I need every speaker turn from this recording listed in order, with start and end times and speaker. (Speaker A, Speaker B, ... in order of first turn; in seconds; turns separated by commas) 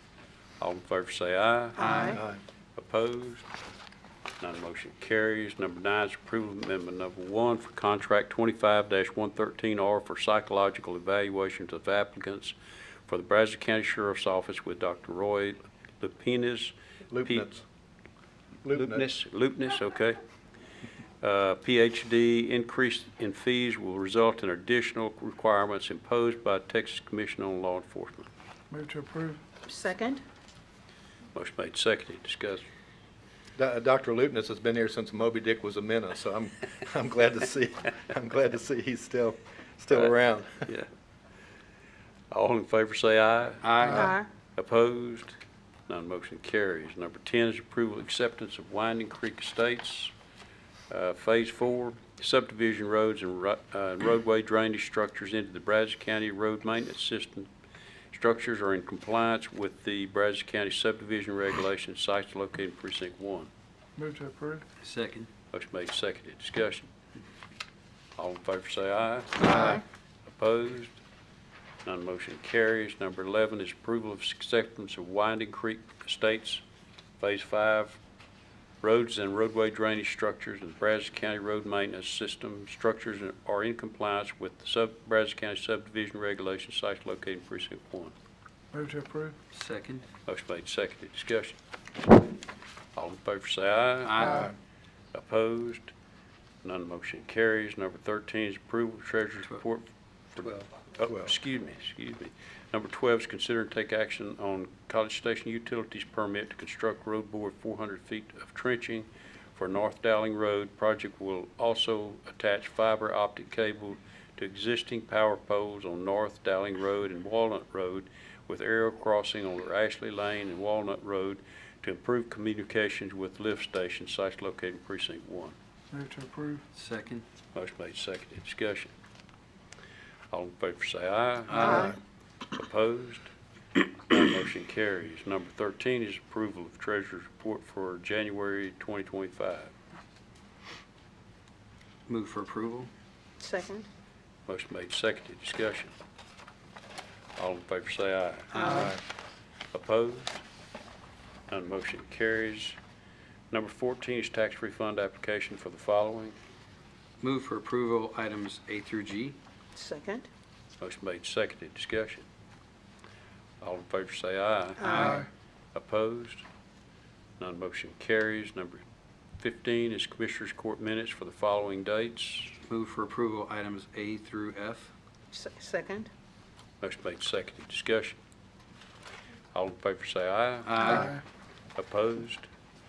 Speaker A: 0.6-2.2, Speaker B: 1.8-2.2, Speaker C: 1.9-2.1, Speaker D: 2.1-2.4, Speaker A: 2.8-3.5, Speaker A: 4.4-12.6, Speaker A: 13.1-17.5, Speaker D: 17.1-17.6, Speaker D: 18.6-19.1, Speaker A: 18.7-20.2, Speaker A: 21.2-28.3, Speaker E: 28.7-29.5, Speaker B: 29.6-30.2, Speaker A: 31.3-32.6, Speaker D: 33.6-40.7, Speaker A: 39.9-40.9, Speaker A: 42.3-50.1, Speaker C: 43.6-44.1, Speaker B: 43.9-44.3, Speaker A: 50.9-57.5, Speaker A: 58.1-63.5, Speaker E: 64.0-64.7, Speaker C: 64.8-65.3, Speaker A: 65.5-66.9, Speaker A: 68.2-71.0, Speaker A: 71.8-76.6, Speaker A: 77.2-78.0, Speaker A: 78.8-88.2, Speaker E: 88.7-89.4, Speaker C: 89.5-90.0, Speaker A: 90.3-91.6, Speaker A: 93.0-94.5, Speaker C: 94.0-94.5, Speaker A: 95.1-95.9, Speaker A: 96.6-125.6, Speaker E: 125.9-126.7, Speaker C: 126.8-127.2, Speaker A: 127.5-128.9, Speaker A: 130.3-131.9, Speaker C: 131.5-131.9, Speaker B: 131.6-131.9, Speaker A: 132.5-133.3, Speaker A: 134.1-139.7, Speaker C: 142.1-142.9, Speaker B: 143.4-143.9, Speaker A: 144.5-145.9, Speaker A: 147.4-148.9, Speaker B: 148.5-148.9, Speaker C: 148.6-148.9, Speaker A: 149.7-150.4, Speaker A: 151.5-152.8, Speaker A: 153.5-156.4, Speaker C: 157.2-159.4, Speaker B: 159.8-160.3, Speaker A: 160.8-162.3, Speaker A: 163.6-166.4, Speaker B: 164.8-165.2, Speaker A: 167.4-168.8, Speaker A: 169.4-172.6, Speaker C: 172.7-174.9, Speaker B: 175.3-176.1, Speaker A: 176.8-178.2, Speaker A: 179.5-181.1, Speaker C: 180.7-181.2, Speaker E: 180.9-181.2, Speaker A: 181.8-182.5